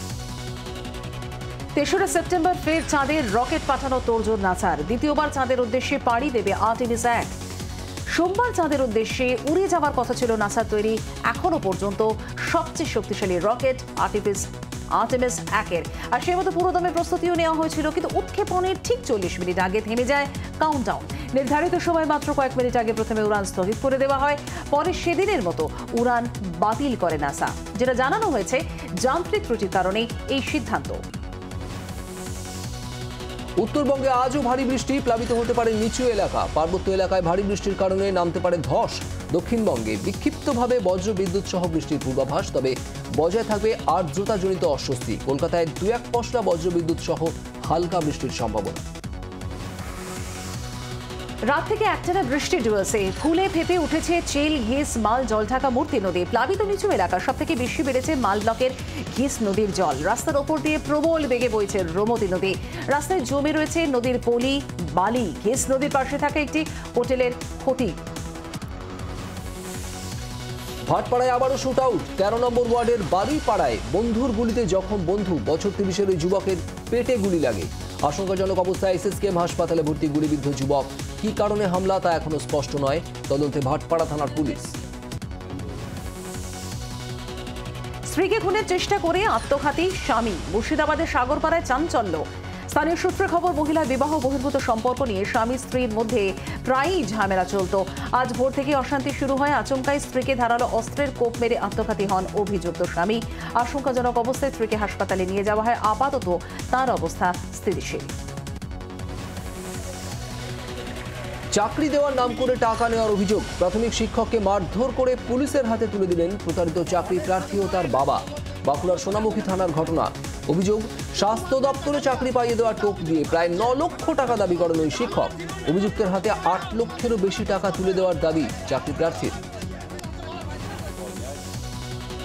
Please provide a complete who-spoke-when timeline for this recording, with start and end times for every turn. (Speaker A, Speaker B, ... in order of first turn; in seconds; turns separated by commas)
Speaker A: 1.8-7.3, Speaker A: 8.1-31.0, Speaker B: 33.6-48.8, Speaker A: 51.5-68.0, Speaker B: 70.9-84.7, Speaker A: 88.1-108.1, Speaker B: 111.5-129.3